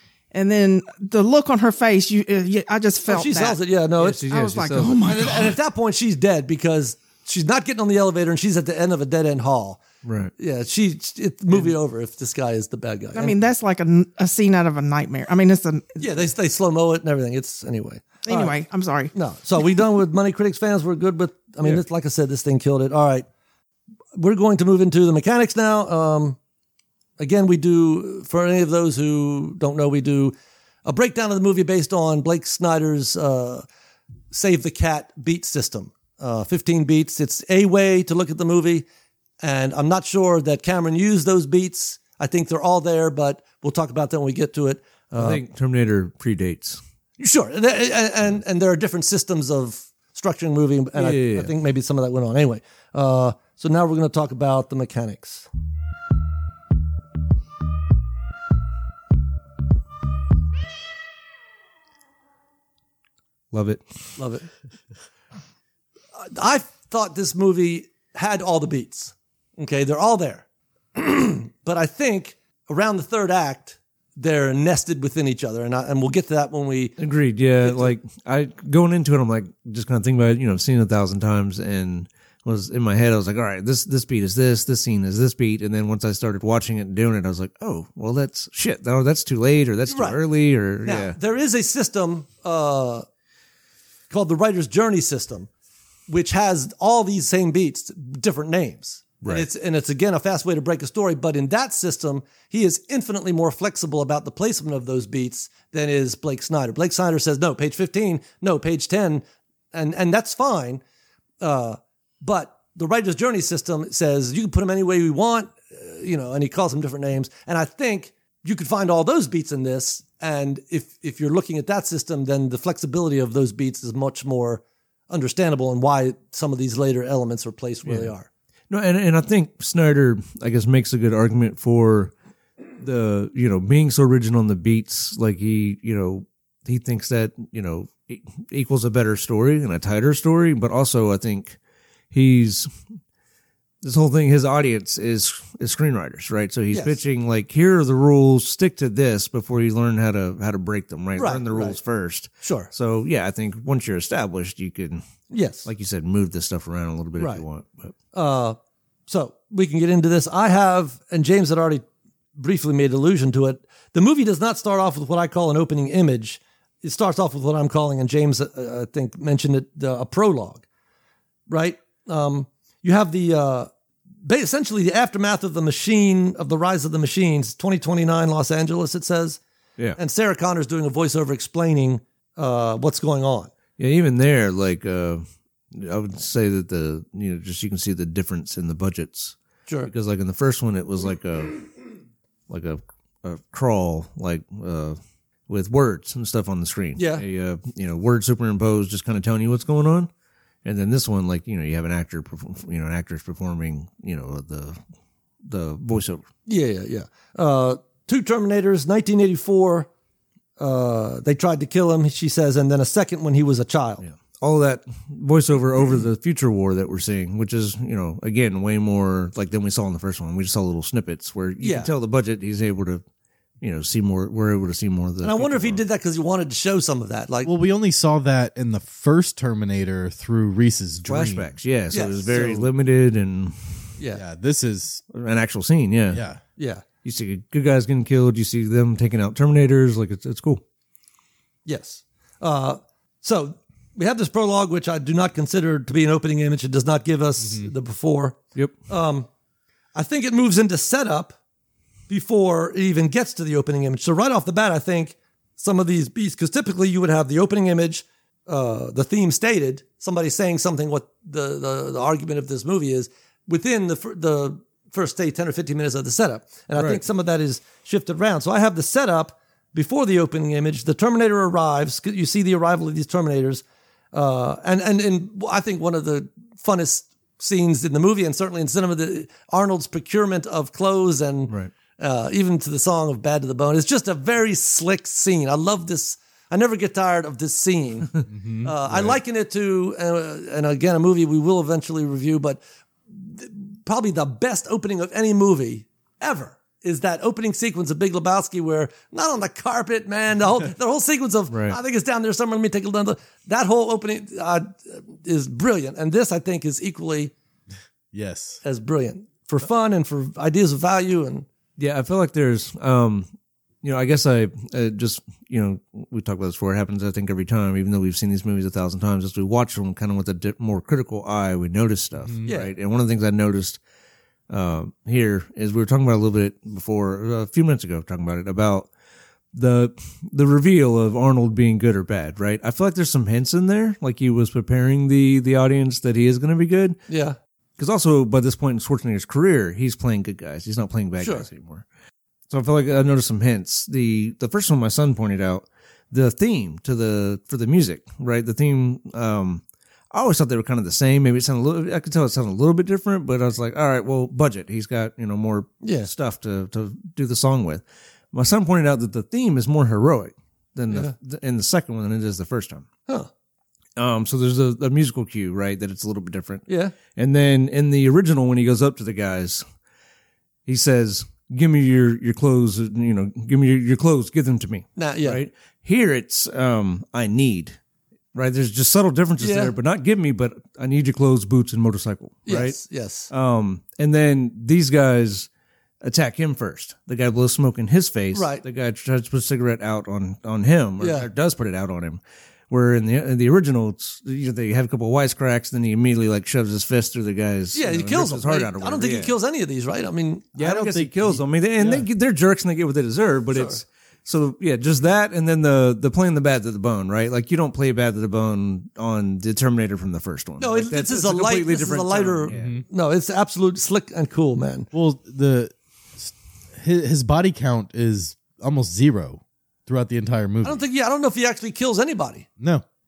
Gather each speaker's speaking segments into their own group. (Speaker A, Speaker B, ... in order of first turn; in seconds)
Speaker A: 0.3-3.6, 4.3-5.5, 13.1-16.0, 18.2-19.1
Speaker B: 3.1-4.2, 5.0-9.8, 10.4-13.3, 16.0-18.6, 19.1-23.3, 24.1-26.4, 27.2-33.6, 34.3-38.9, 39.4-45.4, 47.2-55.5, 64.2-64.5, 66.2-70.4, 71.0-77.0, 77.6-78.0, 89.9-90.2, 90.8-93.0, 94.1-95.5, 96.1-110.8, 111.4-128.3, 146.7-147.0, 151.2-151.8, 152.4-152.7, 155.3-155.7, 157.2-157.4, 158.1-158.6, 159.1-161.8, 162.4-170.7, 171.5-173.7, 174.2-179.4, 180.0-183.5, 197.0-197.2, 206.5-209.9, 210.6-214.0, 221.6-221.9, 225.2-227.5, 231.9-232.7, 236.6-236.8, 241.7-249.3, 249.9-251.3, 252.1-307.3, 308.6-311.5, 322.5-322.7, 337.1-337.4, 341.2-341.5, 355.8-356.1, 366.7-367.0, 375.0-375.4, 379.4-379.7, 382.5-383.3, 388.3-388.6, 391.0-391.3, 397.7-400.6, 403.5-403.8, 410.6-414.9, 420.6-422.5
Speaker C: 4.0-5.2, 10.0-10.3, 45.1-46.8, 51.0-51.5, 63.5-63.8, 77.0-91.2, 127.9-128.1, 128.7-132.1, 132.8-141.6, 142.1-142.7, 143.8-155.0, 155.7-157.9, 183.8-191.7, 192.5-200.1, 200.7-204.8, 205.4-206.2, 214.0-223.0, 223.6-225.8, 231.1-233.8, 235.1-236.2, 237.0-240.6, 266.8-267.0, 301.5-301.8, 311.8-313.3, 313.8-323.8, 324.5-328.9, 329.5-337.0, 337.8-341.9, 342.5-362.9, 364.0-369.6, 370.7-377.8, 378.3-385.5, 386.0-399.4, 400.6-412.7
Speaker D: 227.4-231.5, 234.1-235.0, 236.1-236.4, 247.4-247.7, 288.3-289.2, 308.1-308.6, 322.2-322.5, 400.6-402.1, 412.5-412.8, 414.9-420.8, 422.6-422.8